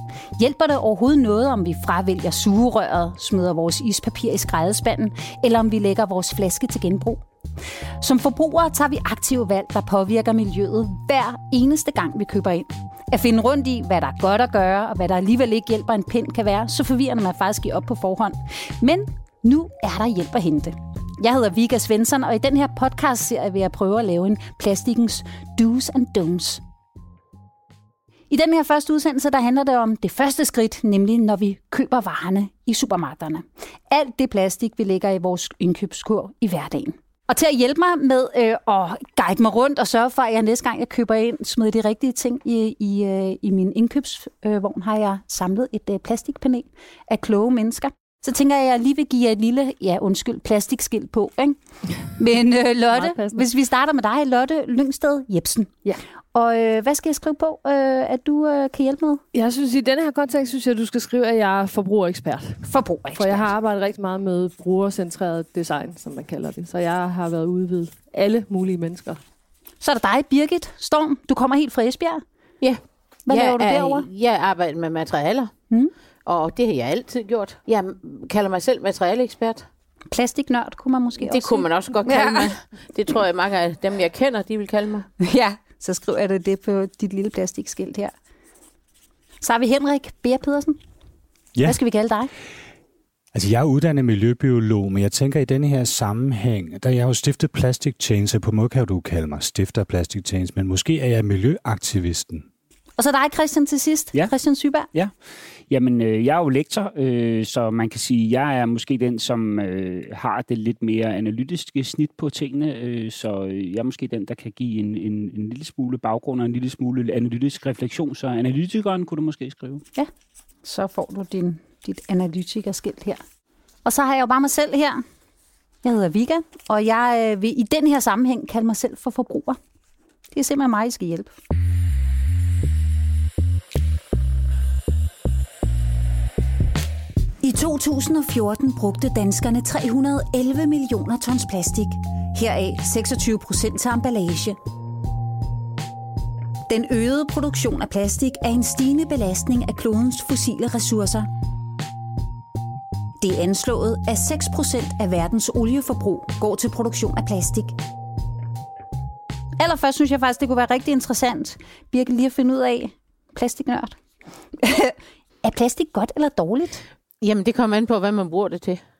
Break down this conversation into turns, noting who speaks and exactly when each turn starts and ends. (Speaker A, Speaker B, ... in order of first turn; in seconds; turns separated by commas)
Speaker A: 0.4-7.2, Speaker A: 8.0-26.6, Speaker A: 28.3-51.6, Speaker A: 52.1-55.7, Speaker B: 52.9-53.5, Speaker A: 56.3-59.2, Speaker B: 59.3-62.6, Speaker A: 62.6-63.5, Speaker B: 63.1-69.2, Speaker A: 69.8-72.2, Speaker C: 72.6-75.5, Speaker A: 73.3-74.1, Speaker C: 76.2-79.7, Speaker A: 80.1-82.5, Speaker C: 81.2-85.1, Speaker A: 85.2-88.1, Speaker A: 89.4-90.8, Speaker A: 91.7-92.3, Speaker D: 93.3-102.5, Speaker A: 103.0-104.9, Speaker E: 105.7-119.8, Speaker A: 120.6-123.2, Speaker A: 123.8-125.0, Speaker A: 125.8-129.6, Speaker A: 130.3-131.3, Speaker A: 137.4-144.6, Speaker A: 146.7-151.3, Speaker A: 153.2-157.7, Speaker A: 159.6-163.9, Speaker A: 164.6-166.8, Speaker C: 167.2-168.8